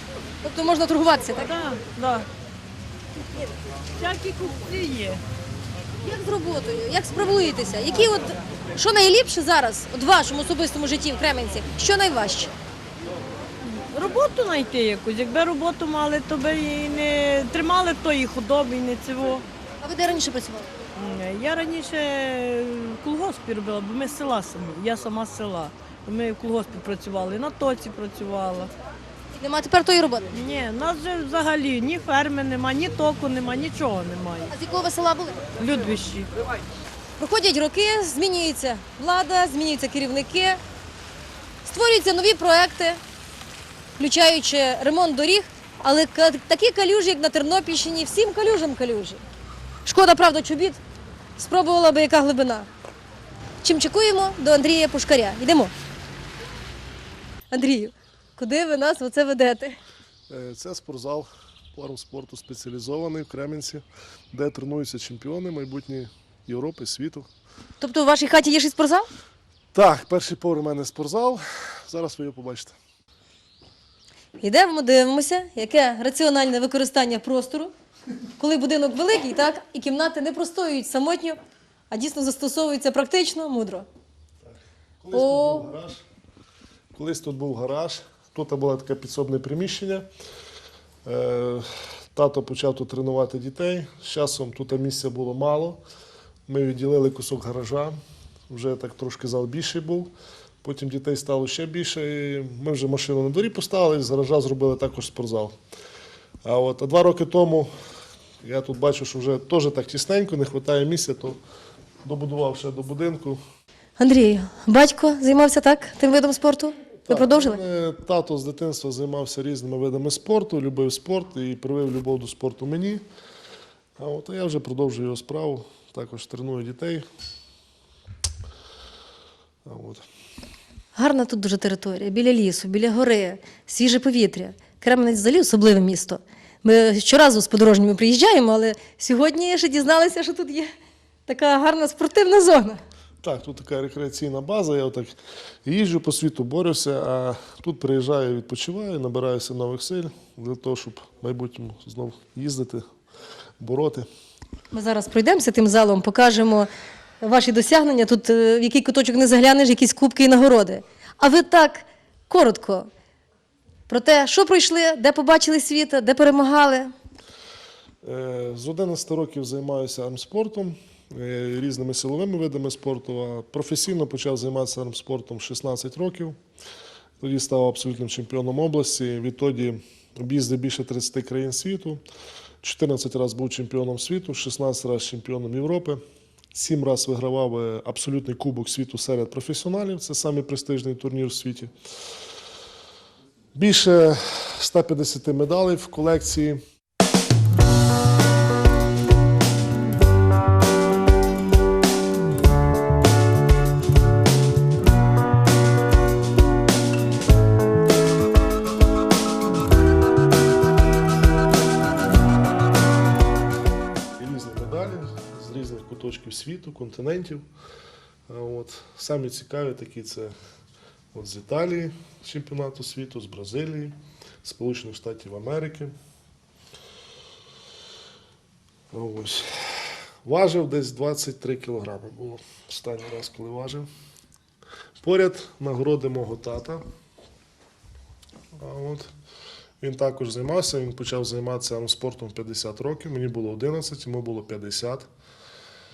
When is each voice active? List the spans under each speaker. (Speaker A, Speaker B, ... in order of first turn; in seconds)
Speaker A: 0.4-1.5, 6.0-12.5, 19.8-20.7, 29.3-30.3, 34.5-35.4, 37.2-40.6, 41.6-43.0, 44.0-49.2, 49.9-50.8, 51.4-52.7, 53.6-55.7, 57.5-59.8, 67.8-69.1, 74.4-77.7, 78.4-81.4, 81.9-83.8, 85.1-85.7, 114.0-117.6, 130.9-140.7, 141.3-142.8, 154.7-156.7, 157.2-162.9, 163.9-166.9
Speaker B: 1.4-2.2, 4.0-5.2, 13.9-19.4, 20.9-28.7, 30.3-34.5, 35.6-36.3
Speaker C: 60.3-67.3, 69.7-72.7, 84.4-86.0, 86.9-90.0, 91.0-95.8, 96.5-98.0, 98.5-100.1, 100.6-105.5, 106.4-107.7, 108.4-111.4, 112.0-113.4, 117.1-123.0, 124.0-127.0, 129.6-130.0, 143.2-152.8, 153.6-154.1, 168.0-176.4, 177.2-182.0, 182.6-186.0, 186.5-191.7, 193.5-196.6, 214.2-217.4, 218.3-220.3, 221.1-225.9, 228.9-233.9, 235.0-236.8, 238.6-239.1, 239.8-245.1